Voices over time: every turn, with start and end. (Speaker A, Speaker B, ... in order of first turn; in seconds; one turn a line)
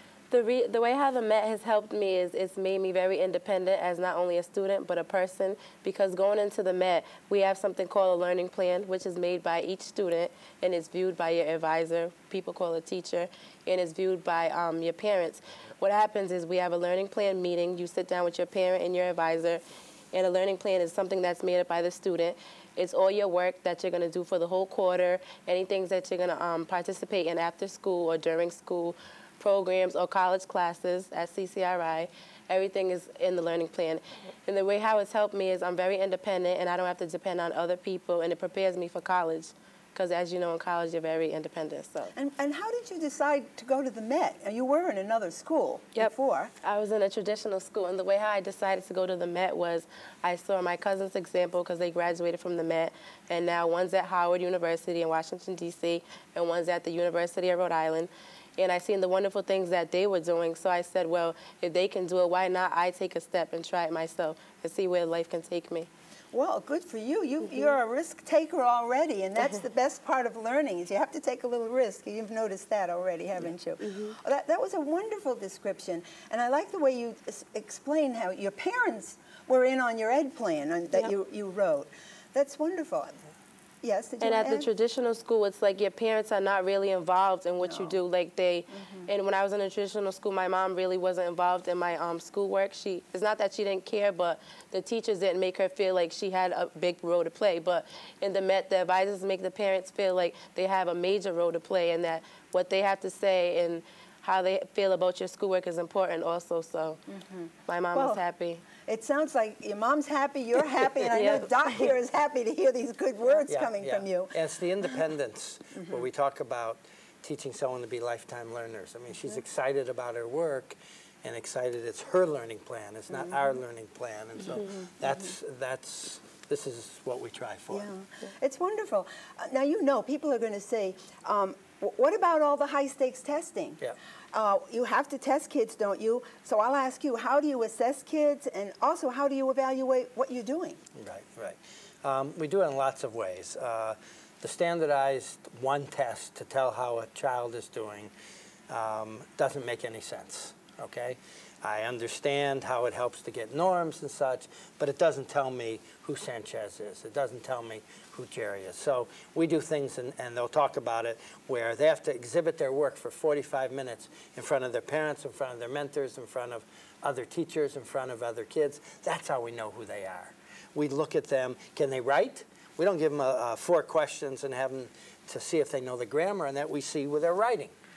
Speaker A: 0.3-42.1
Speaker B: 42.1-46.5
Speaker A: 45.9-65.9
Speaker B: 66.3-83.2
Speaker A: 73.8-74.2
Speaker B: 83.8-84.7
Speaker A: 84.2-107.0
Speaker B: 87.6-88.0
Speaker B: 88.7-89.1
Speaker B: 107.1-108.2
Speaker A: 107.7-108.6
Speaker B: 108.8-114.3
Speaker A: 111.1-111.8
Speaker C: 113.5-127.9
Speaker B: 115.8-116.0
Speaker B: 123.1-123.5
Speaker B: 127.7-133.8
Speaker B: 134.3-140.8
Speaker C: 140.9-148.1
Speaker C: 148.7-177.7